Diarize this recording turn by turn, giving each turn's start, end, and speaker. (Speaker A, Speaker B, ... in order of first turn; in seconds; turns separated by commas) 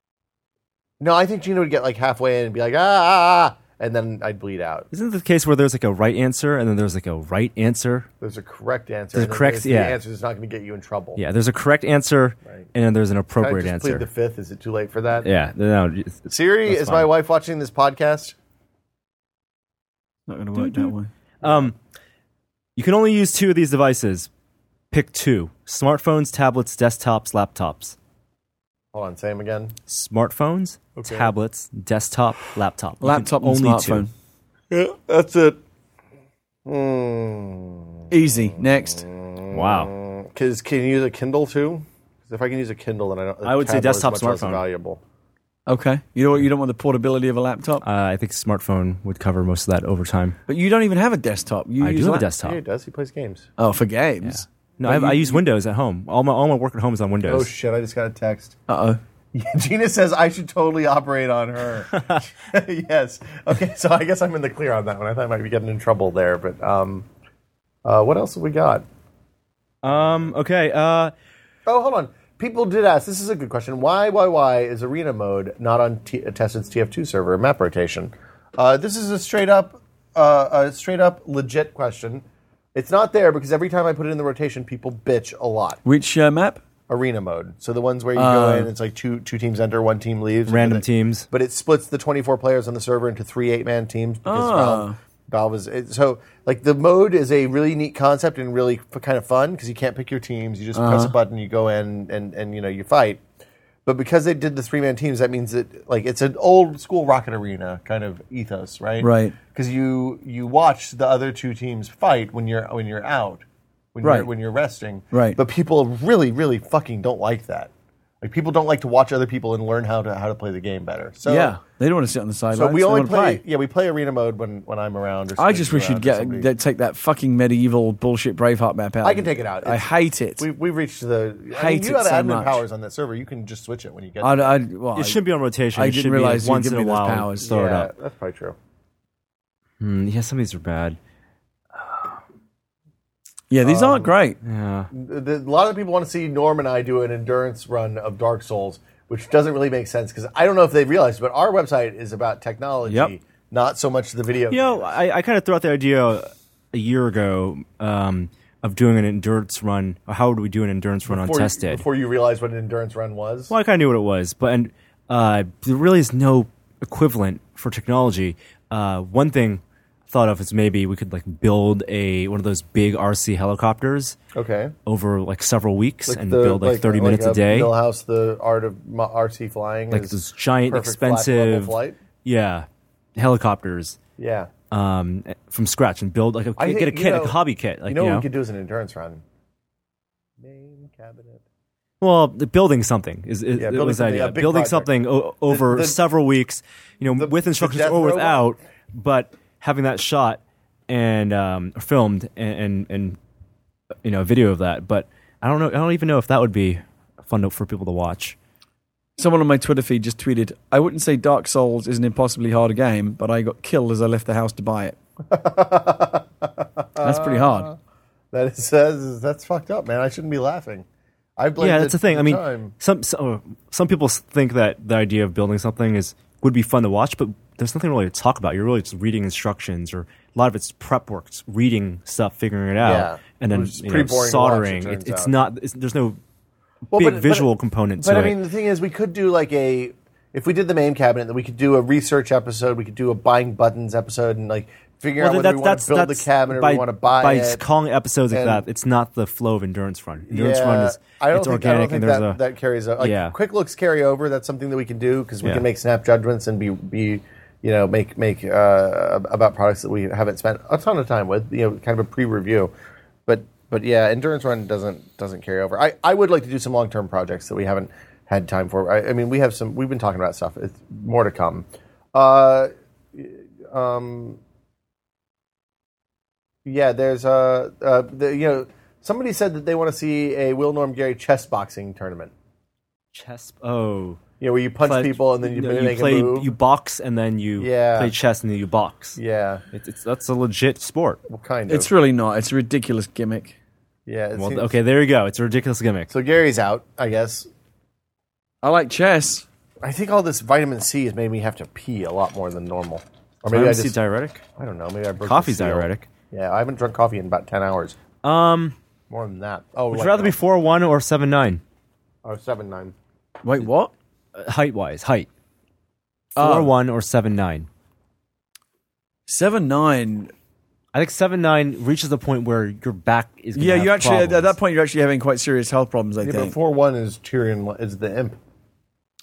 Speaker A: 1.0-4.9, Speaker B: 4.9-8.1, Speaker A: 8.2-11.2, Speaker B: 9.1-10.0, Speaker B: 11.2-14.1, Speaker A: 13.4-15.3, Speaker B: 15.2-17.1, Speaker A: 16.3-18.4, Speaker C: 20.3-21.1, Speaker B: 20.6-21.8, Speaker A: 21.4-21.7, Speaker B: 22.8-24.3, Speaker B: 24.9-28.0, Speaker A: 28.9-29.7, Speaker B: 29.9-34.1, Speaker A: 31.0-31.3, Speaker C: 33.0-34.1, Speaker A: 34.7-35.6, Speaker A: 36.7-45.0, Speaker C: 38.1-39.0, Speaker B: 39.5-39.9, Speaker B: 43.4-44.6, Speaker C: 45.7-47.8, Speaker B: 47.8-50.4, Speaker C: 50.5-52.3, Speaker B: 51.8-52.6, Speaker A: 52.4-53.5, Speaker C: 53.6-55.4, Speaker B: 54.2-57.5, Speaker A: 57.3-58.6, Speaker C: 58.7-59.0, Speaker A: 59.3-67.1, Speaker A: 67.8-68.8, Speaker B: 69.8-71.1, Speaker A: 71.7-82.2, Speaker A: 82.8-85.8, Speaker C: 85.8-86.6, Speaker A: 86.9-103.2, Speaker C: 88.2-88.7, Speaker B: 90.5-91.3, Speaker C: 94.2-95.0, Speaker C: 100.8-101.1, Speaker A: 103.8-113.4, Speaker C: 109.0-109.4, Speaker A: 114.0-117.7, Speaker C: 114.0-114.3, Speaker C: 115.1-115.4, Speaker A: 118.2-121.6, Speaker C: 121.3-123.4, Speaker A: 122.5-126.5, Speaker C: 125.4-130.5, Speaker A: 129.0-134.6, Speaker C: 131.5-132.6, Speaker C: 134.2-135.2, Speaker B: 134.9-137.9, Speaker C: 135.8-137.5, Speaker A: 137.4-138.6, Speaker B: 139.8-141.0, Speaker B: 141.8-142.1, Speaker C: 143.5-144.4, Speaker A: 143.6-144.2, Speaker B: 144.4-144.9, Speaker A: 144.9-154.9, Speaker C: 152.9-153.1, Speaker B: 154.5-161.8, Speaker A: 161.1-163.5, Speaker B: 163.5-174.2, Speaker A: 174.3-174.8, Speaker B: 174.9-177.7, Speaker A: 176.1-182.0, Speaker B: 179.9-184.0, Speaker A: 184.2-184.5, Speaker B: 184.7-188.3, Speaker A: 186.6-189.2, Speaker A: 190.4-191.4, Speaker B: 192.0-203.2, Speaker A: 193.6-194.9, Speaker A: 195.5-196.0, Speaker A: 197.1-198.5, Speaker B: 204.0-208.4, Speaker C: 209.2-215.0, Speaker A: 215.3-217.8, Speaker C: 217.0-217.7, Speaker A: 218.3-220.9, Speaker A: 221.4-222.7, Speaker B: 221.6-236.2, Speaker A: 232.8-235.3, Speaker A: 236.9-247.6, Speaker B: 236.9-238.4, Speaker B: 245.2-252.4, Speaker A: 248.3-248.7, Speaker A: 250.3-262.7, Speaker B: 253.0-253.4, Speaker A: 263.3-274.4, Speaker A: 276.6-282.3, Speaker B: 283.1-284.2, Speaker A: 284.4-286.6, Speaker B: 284.8-289.2, Speaker A: 287.6-288.1, Speaker A: 289.2-289.6, Speaker B: 289.7-291.2, Speaker A: 291.3-291.9, Speaker C: 291.7-293.6, Speaker A: 294.1-294.8, Speaker B: 294.4-296.1, Speaker A: 296.1-297.5, Speaker C: 298.6-299.5, Speaker A: 299.8-304.0, Speaker B: 303.5-304.4, Speaker A: 304.6-308.0, Speaker B: 305.2-306.1, Speaker B: 308.2-308.8, Speaker A: 309.1-310.4, Speaker B: 309.9-311.6, Speaker A: 312.2-312.9, Speaker C: 313.4-313.9, Speaker B: 314.3-315.3, Speaker C: 316.4-316.7, Speaker B: 316.4-317.7, Speaker C: 319.3-320.3, Speaker B: 320.9-324.6, Speaker C: 323.6-326.6, Speaker A: 326.2-328.4